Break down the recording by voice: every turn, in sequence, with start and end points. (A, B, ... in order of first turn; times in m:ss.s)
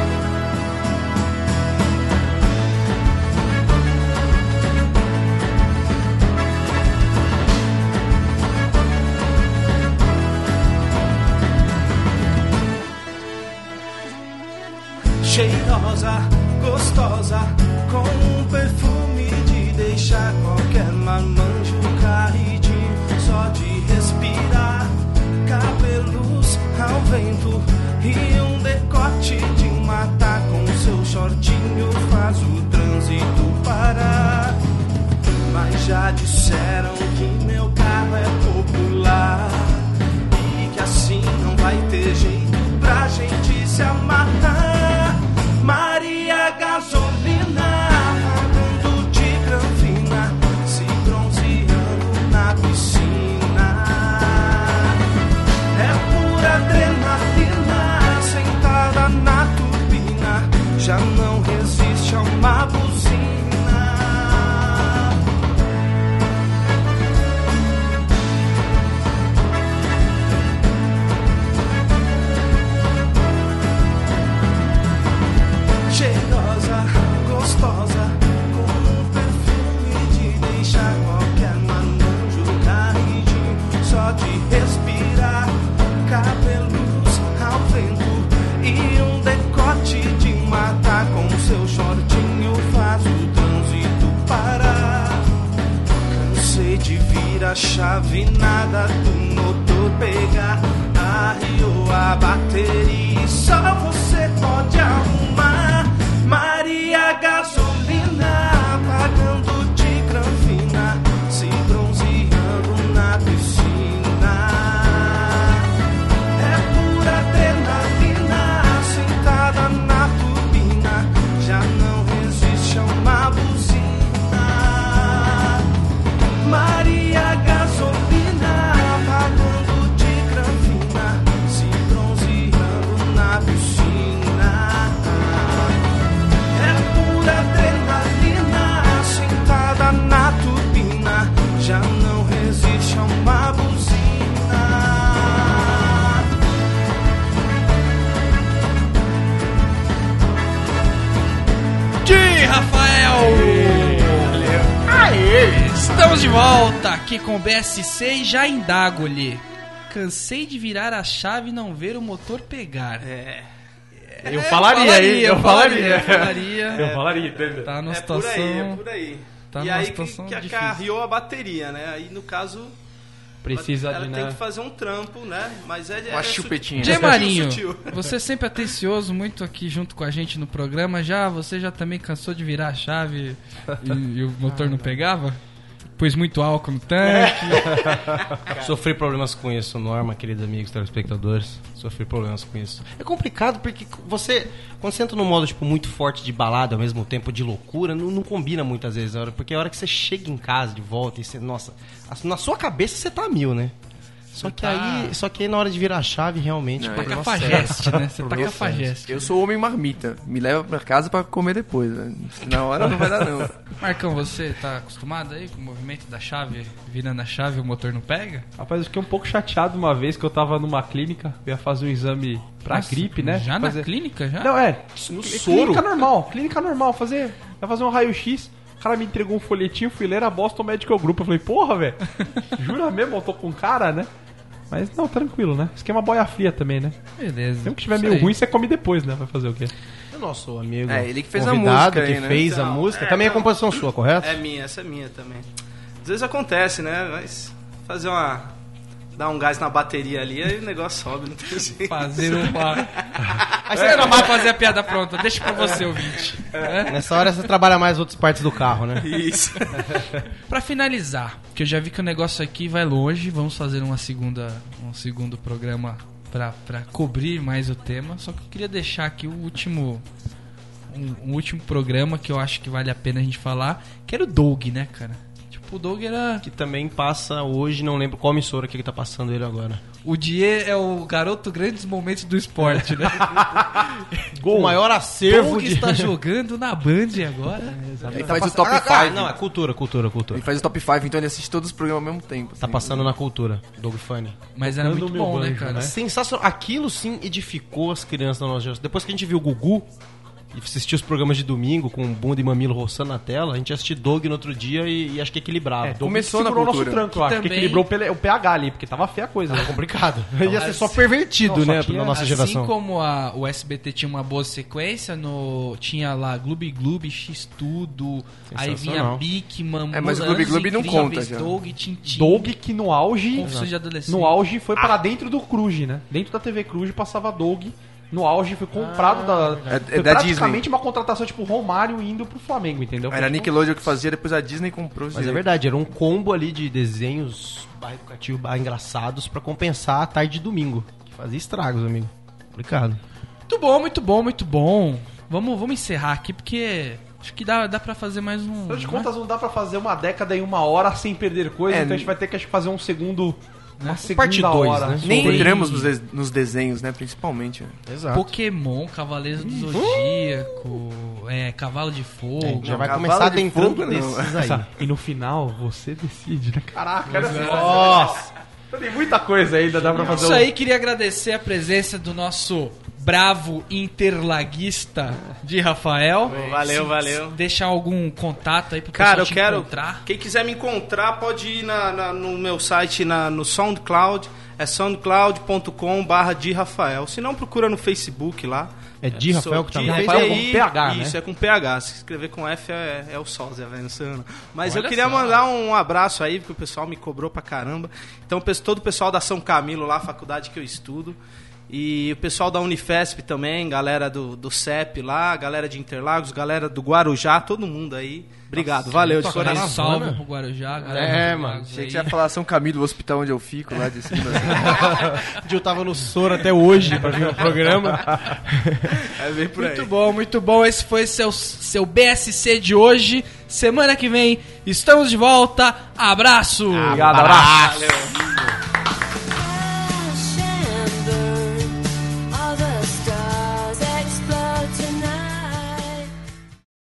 0:15.2-0:34.6 A
0:35.4-0:55.0 A
0:55.7-1:05.2 A
1:15.9-1:35.3 A
1:36.1-1:55.7 A
1:56.4-2:05.7 A
2:06.4-2:15.8 A
2:16.5-2:26.3 A
2:32.0-2:34.7 B
2:33.2-2:34.9 A
2:35.4-2:43.1 B
2:43.0-2:43.5 A
2:44.2-2:47.7 C
2:44.2-2:46.9 B
2:46.8-2:52.8 A
2:47.6-2:48.8 B
2:49.5-2:50.8 B
2:53.4-2:54.4 C
2:53.5-2:58.0 A
2:56.1-2:57.2 D
2:56.8-3:05.4 B
3:04.5-3:05.0 E
3:06.0-3:07.9 B
3:07.0-3:23.7 E
3:24.3-3:28.6 E
3:24.3-3:25.2 B
3:26.8-3:27.4 D
3:27.0-3:29.3 B
3:27.4-3:28.9 C
3:29.1-3:33.6 D
3:33.8-3:38.5 B
3:38.6-3:43.9 C
3:42.7-3:44.6 B
3:44.4-3:54.1 C
3:45.1-3:45.9 E
3:54.7-3:57.0 C
3:57.2-3:58.4 B
3:57.6-3:59.7 C
4:00.1-4:04.4 E
4:00.9-4:02.5 D
4:02.4-4:03.5 A
4:04.2-4:05.5 A
4:06.0-4:08.5 A
4:09.1-4:14.5 A
4:11.9-4:13.0 B
4:13.7-4:14.4 E
4:13.7-4:17.5 B
4:16.9-4:19.2 E
4:19.0-4:20.0 A
4:20.5-4:30.0 B
4:30.9-4:36.5 B
4:36.4-4:39.8 E
4:40.0-4:44.0 B
4:43.3-4:43.6 C
4:44.3-4:46.2 E
4:44.4-4:44.8 C
4:45.2-4:47.8 B
4:47.7-4:48.3 C
4:47.9-4:50.5 E
4:48.1-4:49.4 D
4:50.3-4:53.2 D
4:52.6-4:54.5 E
4:54.6-4:55.9 B
4:54.6-4:56.0 C
4:55.8-4:59.9 E
5:00.5-5:06.0 E
5:05.8-5:09.7 C
5:06.0-5:07.1 D
5:07.1-5:07.9 B
5:09.5-5:12.7 E
5:10.4-5:12.5 C
5:10.5-5:11.0 B
5:12.1-5:22.5 B
5:18.5-5:19.2 E
5:19.9-5:21.6 D
5:22.1-5:23.5 C
5:23.3-5:24.4 B
5:23.4-5:23.7 E
5:24.1-5:33.5 C
5:28.8-5:29.6 E
5:29.7-5:30.7 D
5:33.1-5:35.4 D
5:35.1-5:43.0 E
5:43.5-5:49.1 B
5:48.7-5:55.6 C
5:51.7-5:52.2 D
5:53.8-5:54.0 B
5:54.0-5:55.5 E
5:55.0-5:57.8 D
5:55.1-5:55.9 B
5:57.9-5:58.3 E
5:58.1-6:03.0 B
5:59.5-5:59.8 C
5:59.7-6:00.5 E
6:02.4-6:04.7 E
6:02.6-6:04.5 D
6:04.5-6:10.5 C
6:07.1-6:08.1 B
6:07.2-6:08.3 E
6:10.0-6:20.0 B
6:16.3-6:17.4 A
6:18.9-6:41.2 A
6:29.0-6:30.5 E
6:29.8-6:31.2 C
6:34.6-6:35.4 B
6:41.7-6:49.8 A
6:48.6-6:50.2 E
6:49.0-6:50.0 C
6:49.2-6:52.2 B
6:50.8-6:51.6 E
6:50.9-6:55.2 D
6:54.2-6:59.0 E
6:56.8-6:58.2 C
6:59.0-6:59.9 D
6:59.6-7:07.1 B
7:06.7-7:08.1 E
7:06.9-7:07.8 C
7:07.4-7:08.3 A
7:09.4-7:11.8 F
7:12.3-7:16.1 F